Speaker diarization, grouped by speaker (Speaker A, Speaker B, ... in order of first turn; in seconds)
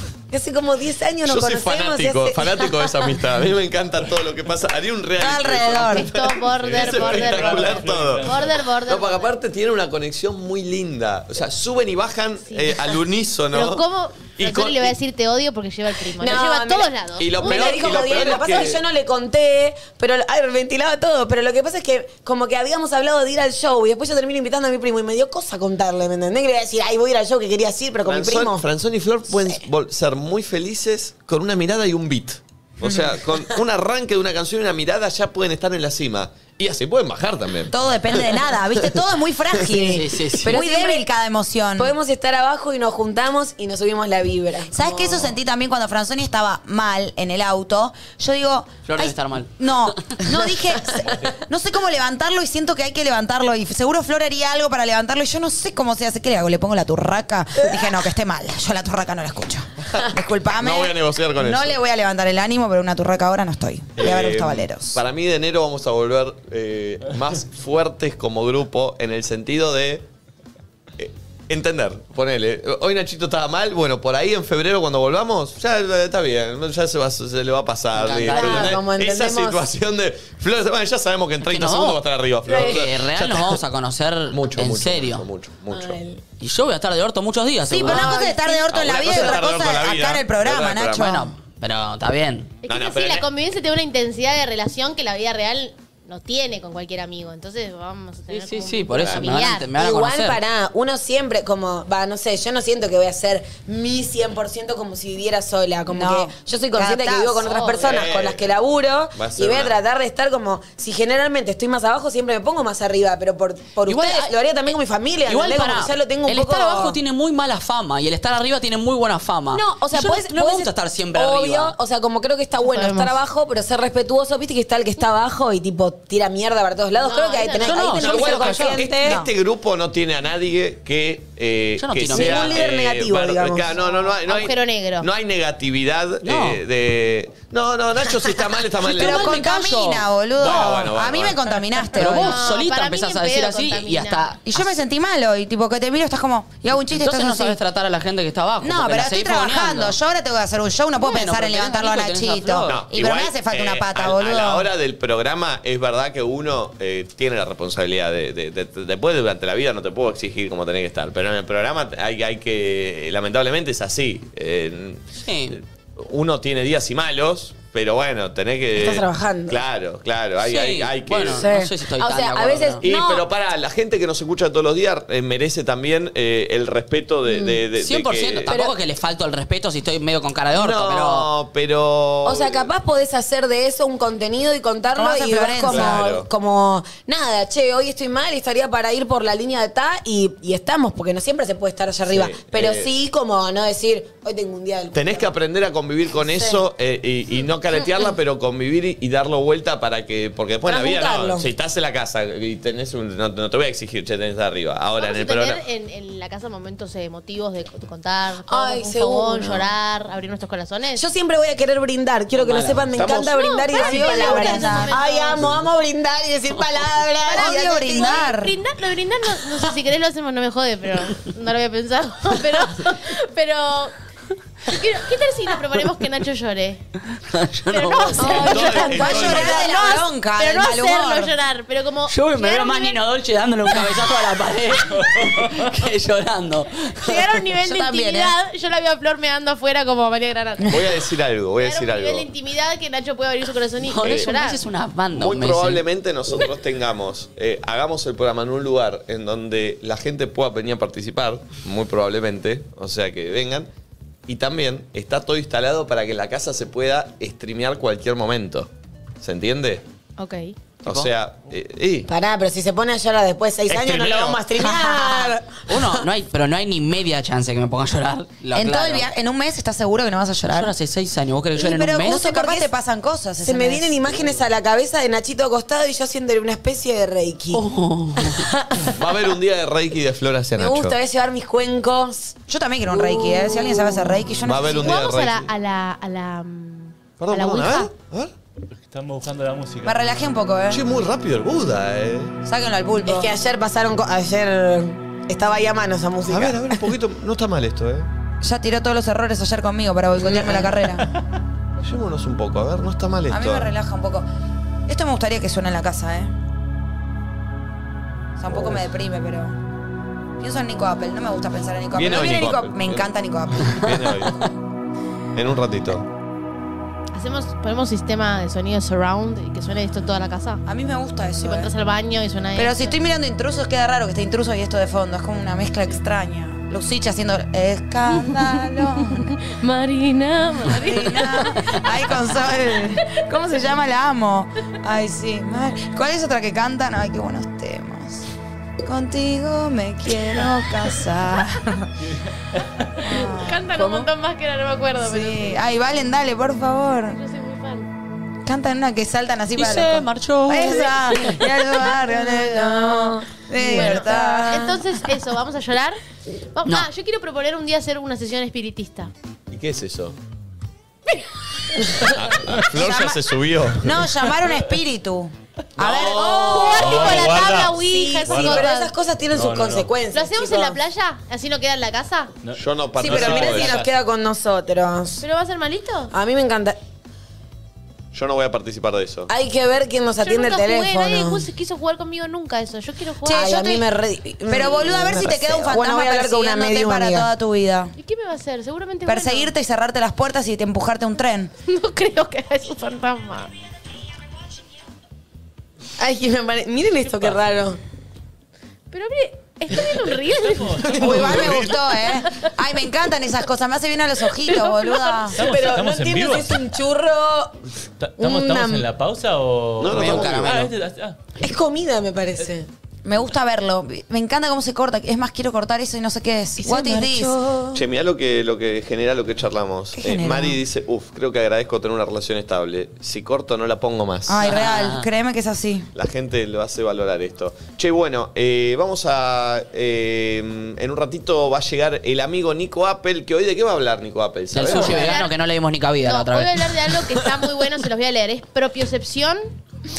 Speaker A: 0.3-3.1, 16.2-28.6, 39.6-41.0, 41.8-45.3, 78.3-79.6, 82.5-82.8, 85.7-86.2, 87.9-88.7, 99.8-117.0, 119.5-129.2, 132.1-133.8, 168.7-169.6, 171.3-173.2, 177.3-177.6, 178.5-178.8, 182.2-195.3, 196.2-196.6, 200.7-201.5, 208.5-209.7, 211.0-218.3, 228.2-230.0, 262.1-266.0, 272.1-272.7, 273.4-277.6, 278.2-279.0, 280.6-282.4, 282.9-284.2, 293.1-296.8, 300.3-300.6, 352.1-354.1, 366.2-370.8, 373.0-375.2, 376.1-376.8, 379.3-381.5, 383.3-387.3, 396.0-397.8, 405.4-407.6, 408.2-408.9, 411.4-412.7, 416.6-417.8
Speaker B: 1.2-13.8, 14.4-15.0, 17.2-18.8, 28.1-38.5, 60.5-61.8, 64.0-70.1, 71.0-83.6, 84.3-86.0, 88.7-91.2, 92.7-93.3, 99.0-99.3, 107.8-108.5, 109.1-109.8, 127.9-139.6, 140.4-141.5, 152.7-171.5, 172.8-178.5, 180.5-182.7, 185.6-186.3, 192.1-192.9, 194.9-205.6, 228.4-229.6, 240.7-242.3, 245.1-253.7, 254.3-258.7, 259.2-259.8, 260.8-262.1, 263.7-264.4, 278.8-281.0, 284.4-285.5, 287.2-288.3, 290.7-292.4, 296.2-298.1, 301.8-303.7, 308.5-308.9, 311.9-314.4, 315.4-316.1, 359.5-360.2, 362.1-364.0, 372.5-373.8, 378.1-379.3, 385.0-385.7, 401.0-401.7, 409.8-410.7, 417.7-424.4, 425.9-435.2
Speaker C: 5.2-6.1, 37.7-41.9, 44.7-65.0, 87.7-91.3, 105.9-107.5, 138.9-142.4, 144.4-147.6, 148.6-154.7, 185.0-186.0, 213.7-215.0, 217.3-218.5, 228.7-231.3, 264.7-265.2, 268.5-270.7, 271.6-273.9, 282.5-284.9, 289.8-290.8, 292.4-293.3, 298.4-301.1, 303.3-304.3, 304.9-306.3, 308.4-309.5, 310.4-314.1, 320.7-321.7, 322.6-329.4, 330.7-338.3, 338.8-341.9, 343.0-344.0, 345.0-347.2, 348.5-354.9, 362.5-363.2, 363.8-367.2, 383.2-383.8, 384.5-387.9, 389.1-391.5, 400.9-405.5, 413.1-417.4, 420.0-420.6, 424.3-425.9
Speaker D: 5.9-9.3, 12.5-12.8, 13.5-18.3, 92.6-99.7, 107.4-108.0, 122.6-123.1, 127.0-127.9, 133.9-135.1, 142.1-144.4, 205.0-211.1, 213.1-215.5, 217.3-223.9, 224.7-226.8, 227.7-233.0, 237.0-240.8, 241.6-244.6, 260.2-260.6, 284.7-287.9, 317.1-320.6, 321.4-323.0, 328.1-331.9, 343.1-345.6, 347.1-347.9, 353.6-356.0, 356.6-359.1, 366.2-368.9, 370.1-372.3, 375.2-376.1, 380.2-383.7, 388.0-389.5, 391.7-393.5, 398.9-401.2, 404.4-405.4, 434.7-435.3, 436.1-439.4
Speaker E: 6.5-8.7, 288.8-290.1, 366.5-367.8, 368.3-368.7, 369.3-369.9, 372.4-373.9, 399.7-401.7, 405.3-406.6, 408.0-411.2
Speaker F: 39.9-40.5, 48.9-50.2, 78.0-78.8, 81.5-85.3, 86.4-88.2, 91.0-92.5, 98.3-100.4, 113.9-114.3, 115.3-121.8, 127.6-128.9, 131.8-132.6, 136.2-136.6, 138.8-140.0, 141.9-144.7, 146.9-150.0, 151.0-152.8, 165.2-165.6, 170.4-172.8, 177.8-181.3, 212.3-213.3, 227.3-228.7, 232.1-238.3, 243.8-245.8, 260.9-261.1, 265.7-269.1, 270.5-272.3, 277.5-278.4, 349.6-351.4, 409.9-410.7, 424.4-425.0, 434.5-436.6